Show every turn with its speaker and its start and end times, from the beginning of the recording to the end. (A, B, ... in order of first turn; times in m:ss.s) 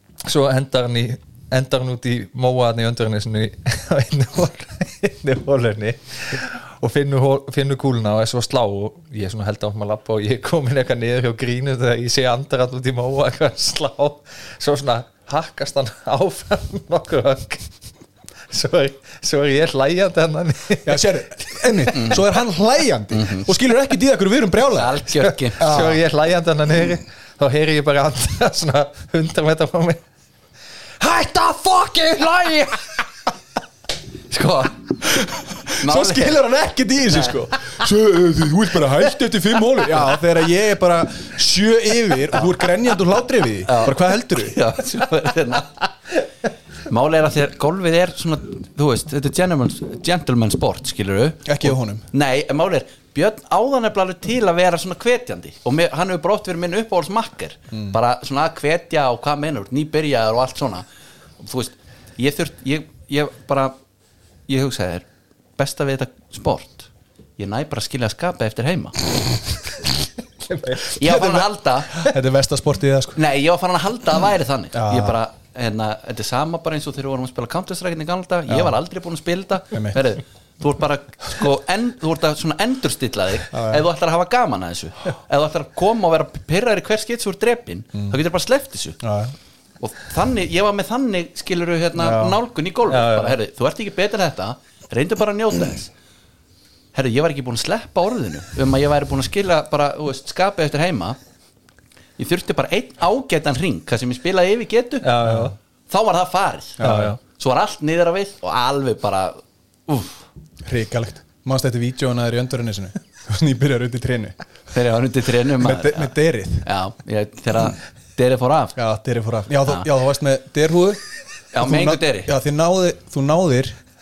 0:00.2-0:17.7 A
0:18.5-0:21.1 A
0:20.8-0:25.0 B
0:23.1-0:23.5 C
0:24.7-0:25.8 C
0:25.2-0:30.0 A
0:25.6-0:26.0 B
0:31.0-0:32.9 A
0:34.3-0:34.8 C
0:35.0-0:44.6 B
0:35.8-0:36.4 C
0:37.1-0:37.4 C
0:43.6-0:45.9 C
0:46.9-1:00.8 C
0:51.4-0:52.0 B
1:01.4-1:03.7 C
1:04.5-1:09.0 C
1:10.5-1:10.9 A
1:11.0-1:11.9 C
1:11.0-1:13.2 B
1:13.2-1:29.0 C
1:14.7-1:15.2 B
1:18.5-1:18.7 B
1:19.7-1:20.0 B
1:23.5-1:23.8 B
1:29.0-1:29.3 B
1:29.8-1:35.9 C
1:32.0-1:32.4 B
1:32.9-1:33.4 A
1:36.9-1:41.2 C
1:42.2-1:45.1 C
1:45.0-1:45.5 A
1:45.2-1:45.5 B
1:45.9-1:50.2 C
1:46.8-1:47.2 B
1:46.8-1:47.2 A
1:50.6-1:54.4 B
1:54.7-1:58.8 C
1:55.5-1:56.7 B
1:58.8-2:01.0 B
2:01.5-2:02.3 C
2:01.6-2:03.8 B